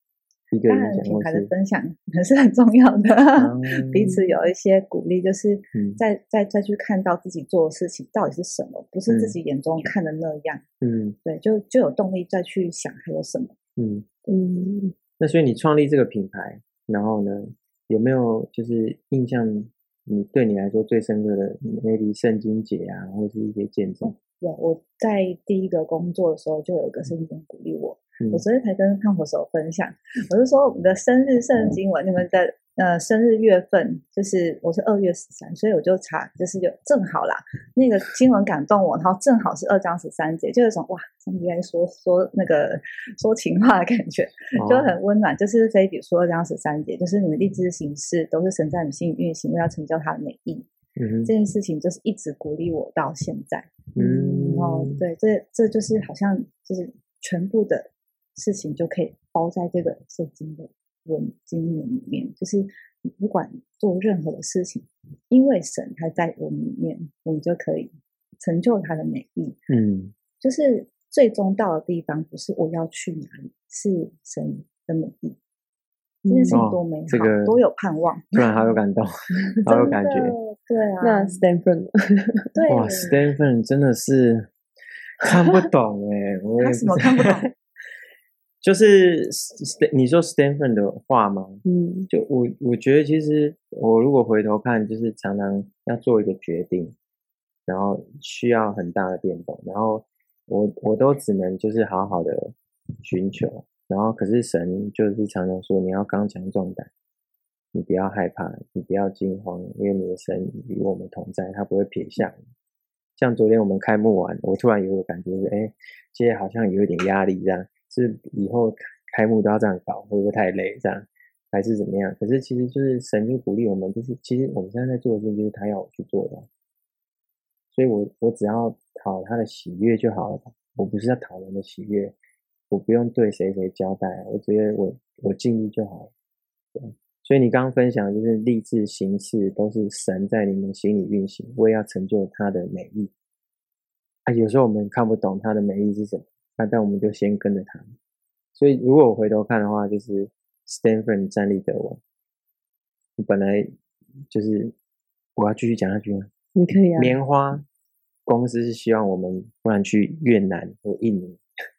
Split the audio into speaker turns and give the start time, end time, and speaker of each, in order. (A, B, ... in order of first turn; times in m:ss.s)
0:00.5-0:01.5 A
0:00.7-0:10.6 B
0:03.4-0:04.1 A
0:05.7-0:06.0 A
0:09.1-0:09.4 A
0:10.8-0:11.2 A
0:11.2-0:13.5 B
0:13.8-0:14.1 A
0:14.3-0:14.9 C
0:15.2-0:24.1 A
0:24.0-0:50.7 B
0:44.6-0:45.0 A
0:51.0-0:51.3 A
0:51.2-0:53.9 B
0:54.0-0:55.0 A
0:54.0-0:54.5 C
0:54.4-1:09.6 B
1:09.7-1:10.1 A
1:10.4-1:15.4 B
1:16.2-1:16.6 C
1:16.3-1:18.7 B
1:16.5-1:17.6 A
1:18.3-1:19.1 A
1:19.6-1:20.4 A
1:19.6-1:21.4 B
1:21.0-1:22.5 C
1:22.5-1:23.2 B
1:22.7-1:24.5 A
1:25.2-1:27.4 A
1:26.6-1:27.5 B
1:28.6-1:36.9 A
1:31.6-1:32.1 C
1:37.7-1:46.9 A
1:47.7-1:52.4 A
1:53.2-2:06.5 A
2:07.7-2:12.1 A
2:12.7-2:16.1 A
2:16.7-2:23.1 A
2:24.2-2:27.8 A
2:28.6-2:32.0 A
2:33.2-2:33.7 A
2:34.3-2:34.7 A
2:35.4-2:36.3 A
2:36.5-2:37.2 C
2:37.0-2:37.6 A
2:38.3-2:41.4 A